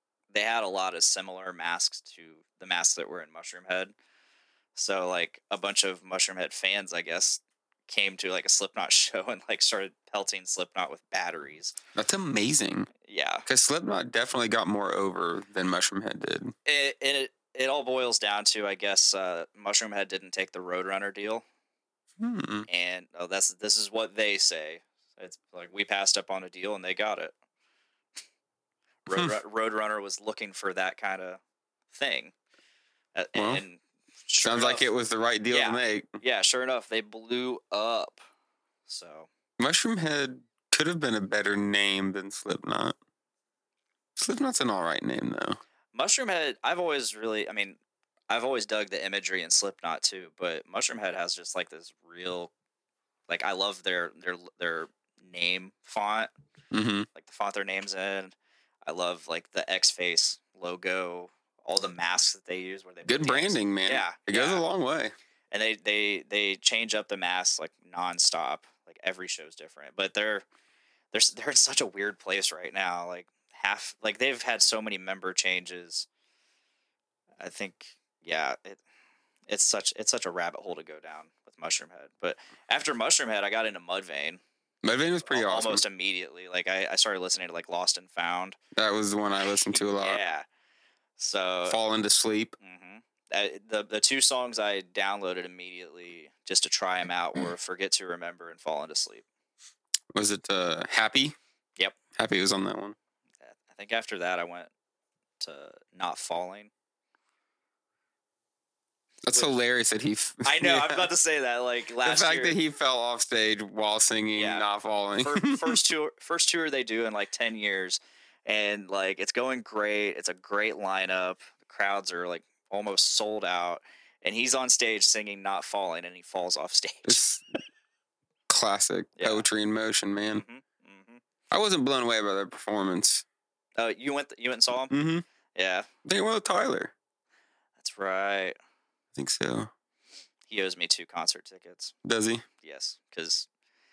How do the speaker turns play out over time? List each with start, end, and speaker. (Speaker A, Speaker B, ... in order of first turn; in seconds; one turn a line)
Speaker A: 0.3-3.9
Speaker A: 4.8-11.8
Speaker B: 11.9-12.9
Speaker A: 13.1-13.5
Speaker B: 13.5-16.5
Speaker A: 16.7-21.4
Speaker B: 22.2-22.7
Speaker A: 22.7-27.3
Speaker A: 29.1-31.4
Speaker B: 29.1-29.4
Speaker A: 31.9-32.3
Speaker A: 33.1-34.9
Speaker B: 33.4-33.6
Speaker B: 34.4-36.2
Speaker A: 35.5-38.2
Speaker A: 38.9-39.3
Speaker B: 39.6-43.0
Speaker B: 44.2-45.6
Speaker A: 45.9-47.8
Speaker A: 48.3-52.5
Speaker A: 53.3-56.3
Speaker B: 56.7-57.1
Speaker A: 57.1-64.7
Speaker B: 63.0-65.1
Speaker A: 65.5-70.5
Speaker A: 71.1-76.1
Speaker A: 77.4-78.8
Speaker A: 79.5-84.4
Speaker B: 84.8-85.8
Speaker A: 85.3-88.6
Speaker B: 88.8-90.2
Speaker A: 89.7-90.5
Speaker A: 91.2-91.8
Speaker B: 91.7-92.5
Speaker A: 92.6-99.2
Speaker B: 100.1-101.4
Speaker B: 102.2-103.0
Speaker A: 103.5-104.7
Speaker A: 105.4-106.7
Speaker B: 109.2-111.1
Speaker A: 110.4-112.6
Speaker B: 112.0-115.9
Speaker A: 114.3-114.7
Speaker A: 115.2-127.2
Speaker B: 127.0-127.4
Speaker B: 128.5-130.4
Speaker A: 129.2-129.4
Speaker A: 130.3-131.2
Speaker B: 131.5-133.2
Speaker A: 133.8-134.9
Speaker B: 134.9-135.2
Speaker A: 135.6-135.9
Speaker B: 136.1-136.9
Speaker A: 137.8-138.6
Speaker B: 139.2-139.7
Speaker A: 140.5-141.9
Speaker B: 142.0-142.4
Speaker A: 142.6-143.5